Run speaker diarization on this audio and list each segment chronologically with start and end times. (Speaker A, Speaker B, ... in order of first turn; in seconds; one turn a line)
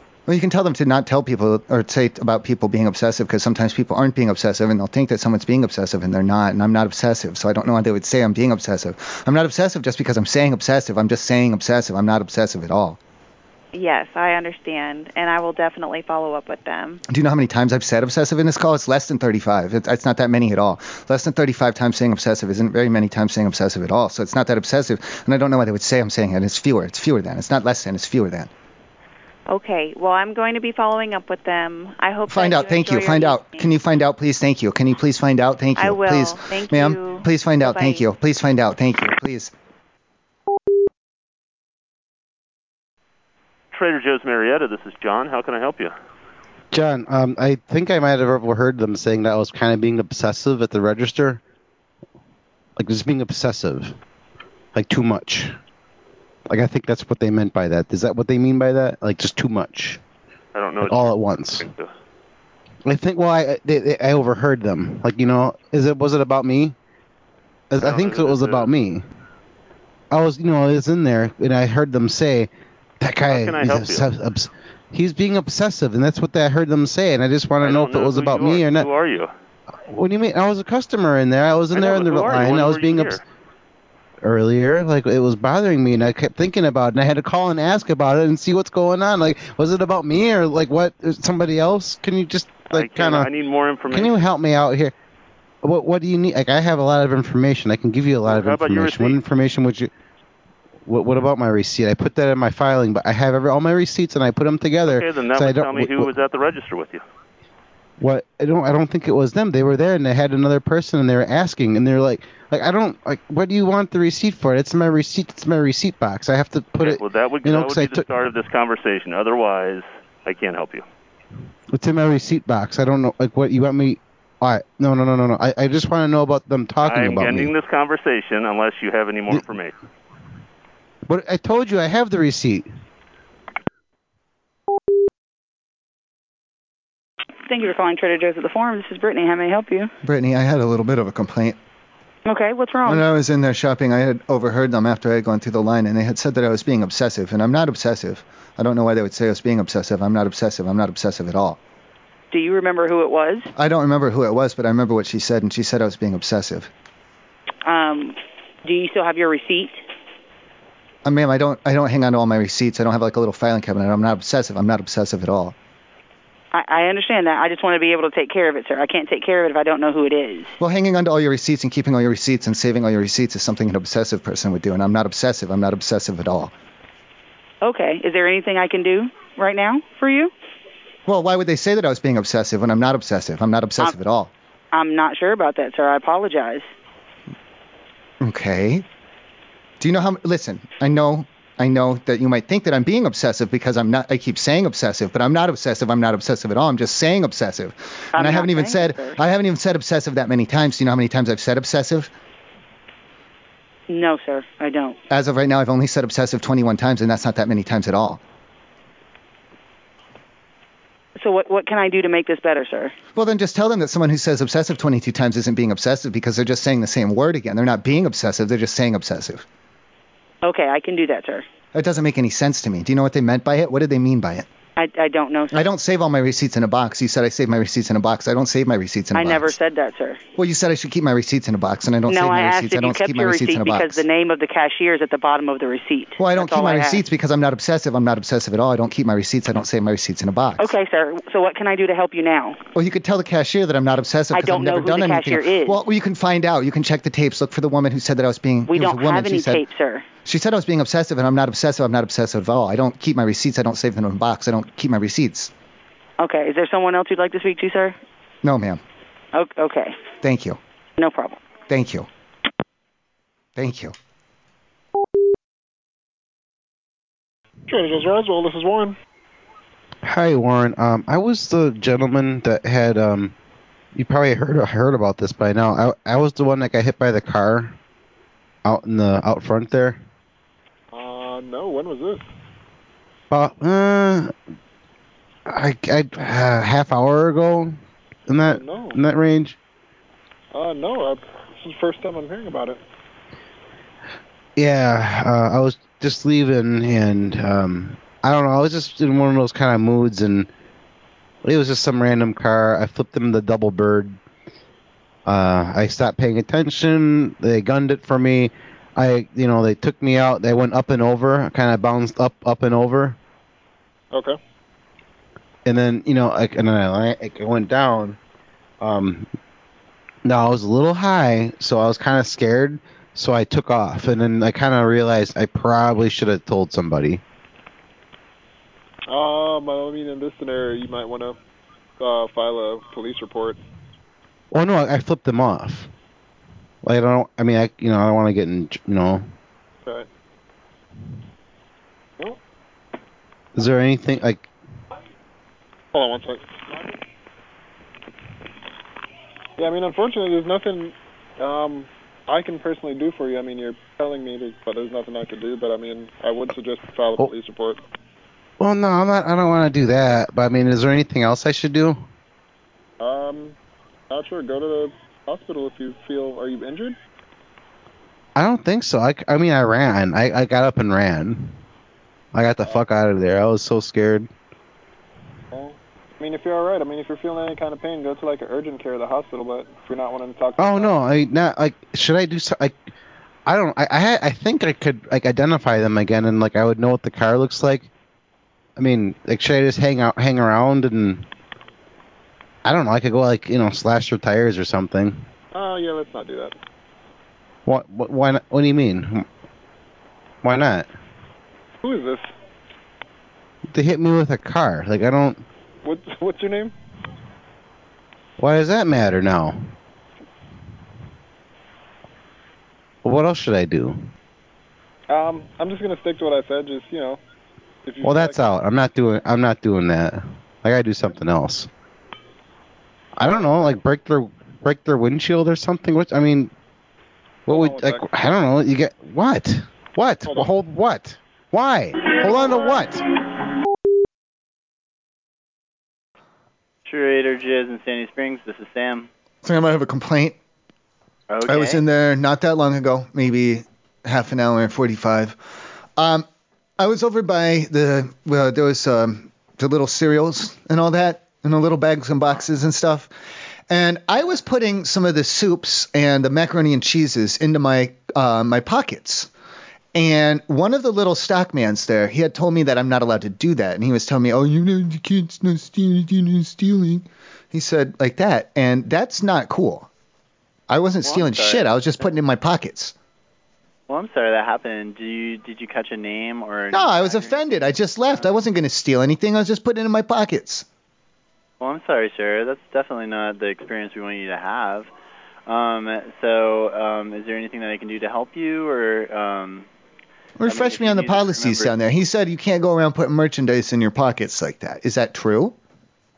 Speaker A: 0.3-13.0
Speaker B: 13.7-17.0
Speaker A: 17.1-28.5
Speaker B: 29.5-33.7
Speaker A: 32.3-39.5
Speaker B: 35.8-38.0
Speaker C: 43.7-45.9
Speaker D: 46.7-51.4
Speaker D: 52.8-54.0
Speaker D: 54.7-55.5
Speaker D: 56.5-60.0
Speaker C: 60.5-61.9
Speaker D: 60.8-61.7
Speaker D: 62.8-66.7
Speaker D: 67.7-69.0
Speaker C: 67.8-68.7
Speaker D: 70.1-78.9
Speaker C: 73.3-74.1
Speaker C: 77.6-79.3
Speaker D: 79.9-83.2
Speaker C: 81.7-83.2
Speaker D: 84.2-93.3
Speaker C: 92.7-94.2
Speaker D: 93.9-94.9
Speaker D: 95.6-99.9
Speaker C: 98.2-99.2
Speaker D: 100.8-106.1
Speaker C: 104.8-107.0
Speaker D: 108.0-118.1
Speaker C: 116.8-120.8
Speaker D: 121.7-127.5
Speaker C: 126.8-129.7
Speaker D: 131.1-132.7
Speaker E: 137.4-139.9
Speaker A: 140.0-141.6
Speaker E: 142.2-143.0
Speaker A: 142.8-151.6
Speaker E: 152.3-153.5
Speaker A: 153.6-156.7
Speaker E: 157.7-159.8
Speaker A: 161.0-165.5
Speaker E: 166.5-170.6
Speaker A: 170.6-176.5
Speaker E: 177.6-180.3
Speaker A: 181.1-184.3
Speaker E: 184.7-186.7
Speaker A: 188.2-188.8
Speaker A: 189.8-202.1
Speaker E: 198.1-199.2
Speaker E: 203.9-205.0
Speaker A: 205.1-208.2
Speaker E: 211.2-212.9
Speaker A: 213.2-219.4
Speaker E: 220.4-221.4
Speaker A: 221.7-224.5
Speaker E: 224.8-225.7
Speaker A: 225.5-229.6
Speaker E: 229.1-230.2
Speaker A: 230.4-234.0
Speaker E: 232.1-237.0
Speaker A: 236.2-240.7
Speaker E: 240.6-242.6
Speaker A: 242.7-249.6
Speaker E: 244.3-245.8
Speaker E: 248.7-250.1
Speaker A: 250.2-255.5
Speaker E: 256.2-257.9
Speaker A: 258.4-258.8
Speaker E: 259.3-260.0
Speaker A: 260.2-260.6
Speaker E: 261.0-261.4
Speaker A: 261.7-262.1
Speaker A: 263.6-263.9
Speaker F: 267.7-268.9
Speaker D: 270.0-273.3
Speaker D: 273.9-277.7
Speaker D: 278.6-280.0
Speaker F: 280.9-282.2
Speaker D: 283.3-284.3
Speaker D: 285.4-287.8
Speaker D: 288.3-289.6
Speaker F: 288.4-289.0
Speaker F: 290.5-292.8
Speaker D: 294.6-300.5
Speaker D: 301.4-304.2
Speaker D: 305.2-313.2
Speaker F: 314.1-314.4
Speaker D: 315.6-318.2
Speaker D: 318.8-319.3
Speaker D: 320.2-327.2
Speaker F: 329.1-331.4
Speaker F: 332.0-333.6
Speaker D: 334.5-335.9
Speaker D: 336.8-339.3
Speaker D: 343.5-344.4
Speaker F: 345.9-346.9
Speaker F: 349.6-357.8
Speaker D: 358.6-362.0
Speaker F: 363.0-363.6
Speaker F: 364.1-367.0
Speaker D: 368.4-371.6
Speaker D: 372.3-374.3
Speaker F: 375.5-380.9
Speaker D: 380.6-382.8
Speaker D: 383.4-387.9
Speaker D: 388.8-391.2
Speaker D: 392.6-395.2
Speaker F: 395.5-396.6
Speaker D: 397.6-399.2
Speaker D: 400.4-400.9
Speaker F: 401.8-402.3
Speaker D: 403.7-405.4
Speaker F: 405.8-406.7
Speaker D: 408.4-409.7
Speaker D: 413.0-414.1
Speaker F: 415.1-417.2
Speaker F: 417.8-418.5
Speaker D: 418.0-421.7
Speaker D: 423.2-426.5
Speaker F: 423.2-423.6
Speaker D: 427.5-433.0
Speaker F: 427.5-428.1
Speaker F: 430.2-430.5
Speaker F: 432.3-432.7
Speaker G: 436.8-439.1
Speaker A: 439.4-440.4
Speaker G: 441.3-441.8
Speaker A: 441.5-445.4
Speaker A: 446.0-446.2
Speaker A: 446.8-453.1
Speaker A: 453.7-459.3
Speaker A: 459.9-469.9
Speaker A: 470.7-472.9
Speaker G: 471.0-472.1
Speaker G: 473.9-478.4
Speaker A: 476.7-480.6
Speaker G: 481.6-484.9
Speaker G: 485.5-489.7
Speaker A: 490.4-495.5
Speaker G: 490.4-491.7